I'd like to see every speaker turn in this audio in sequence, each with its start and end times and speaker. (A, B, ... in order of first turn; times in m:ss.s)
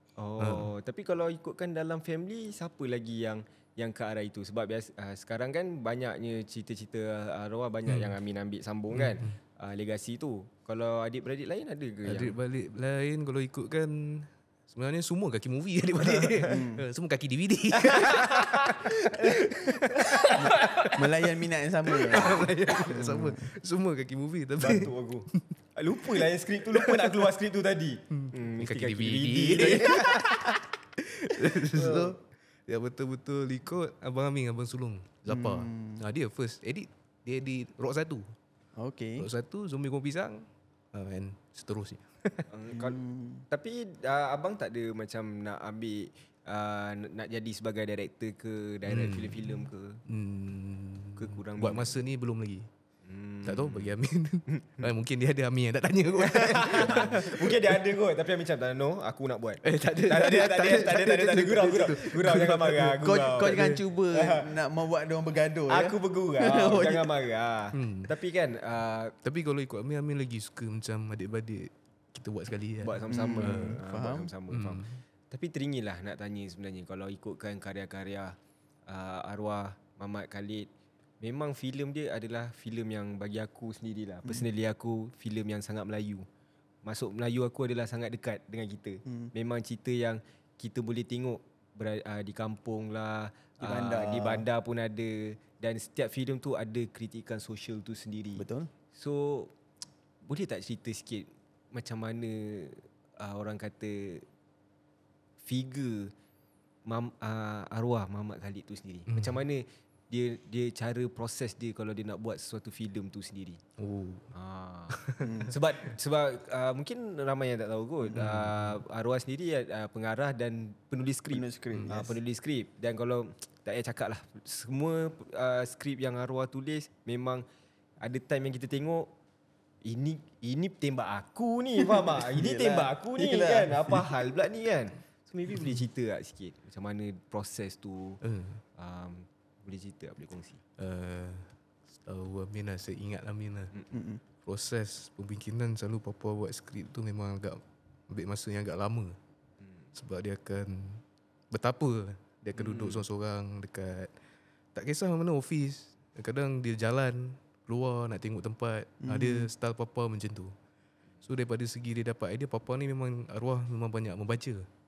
0:00.2-0:12.4 A
0:00.4-0:00.7 B
0:07.9-0:08.2 B
0:08.9-0:09.4 B
0:12.0-0:21.0 B
0:16.0-0:16.8 C
0:17.7-0:21.0 A
0:20.4-0:23.5 C
0:21.9-0:25.4 B
0:24.6-0:30.6 A
0:26.8-0:27.1 B
0:28.1-0:38.3 B
0:31.5-0:32.2 A
0:35.3-0:36.0 C
0:38.8-0:39.3 C
0:39.2-0:42.5 B
0:42.5-0:50.0 A
0:42.7-0:43.4 C
0:48.9-0:52.7 B
0:51.2-0:51.9 A
0:53.0-0:53.9 A
0:53.4-0:57.7 B
0:54.5-0:54.9 A
0:56.2-1:04.5 A
0:59.6-1:03.0 B
1:03.0-1:07.0 C
1:05.7-1:09.1 A
1:06.5-1:07.1 B
1:07.7-1:08.1 B
1:09.2-1:13.8 B
1:12.8-1:18.4 A
1:13.1-1:14.3 C
1:14.5-1:15.0 B
1:18.9-1:20.7 A
1:21.2-1:26.3 A
1:26.8-1:39.5 A
1:33.6-1:34.5 C
1:38.4-1:38.7 C
1:40.2-1:44.2 A
1:45.4-1:46.1 A
1:46.9-1:53.6 A
1:49.1-1:49.4 B
1:53.8-1:54.3 B
1:54.3-2:07.4 A
1:54.9-1:55.5 B
1:55.2-1:55.5 C
1:58.1-1:58.8 B
2:01.3-2:02.2 C
2:01.7-2:02.0 B
2:08.0-2:09.1 A
2:09.8-2:18.2 A
2:12.3-2:14.0 C
2:18.2-2:18.6 B
2:18.8-2:20.6 A
2:20.8-2:21.5 B
2:22.0-2:23.7 B
2:23.9-2:24.2 C
2:24.4-2:29.2 B
2:30.0-2:34.1 B
2:32.6-2:33.0 A
2:34.8-2:40.5 B
2:39.0-2:39.5 C
2:41.2-2:44.7 B